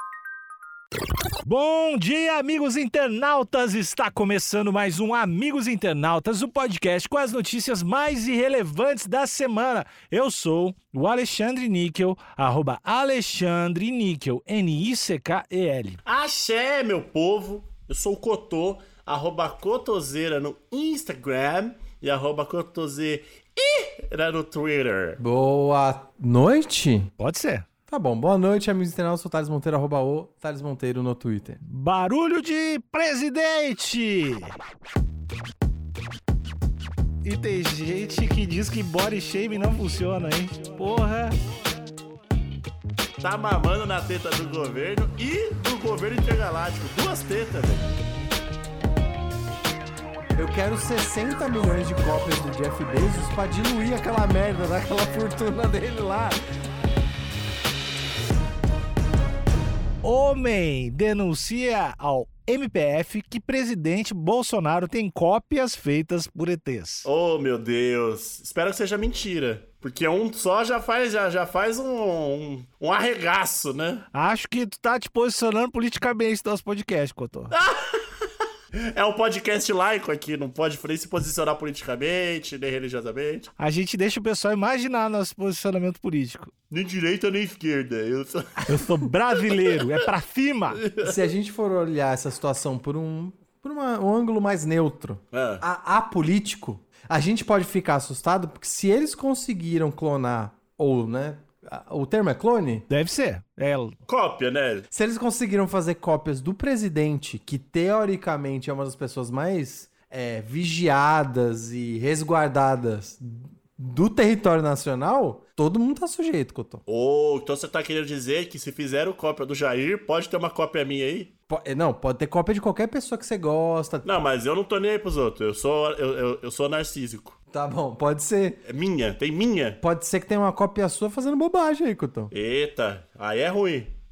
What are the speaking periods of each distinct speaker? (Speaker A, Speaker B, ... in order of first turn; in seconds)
Speaker A: 1.4-16.0, 27.2-27.7, 31.6-34.6, 37.2-41.4, 60.0-67.1, 74.1-77.5, 83.6-86.5, 88.6-90.8, 102.9-104.0
Speaker B: 16.0-25.2, 43.2-47.9, 67.0-74.0, 77.5-78.1, 78.7-83.5, 86.7-89.0, 90.8-91.1, 95.3-95.6, 104.1-104.9, 116.9-121.3, 124.0-127.3, 128.7-129.8, 132.3-133.9
Speaker C: 25.2-27.1, 27.9-31.6, 50.4-56.4, 91.0-102.8, 104.9-116.8, 121.5-124.0, 127.5-128.6, 129.8-132.3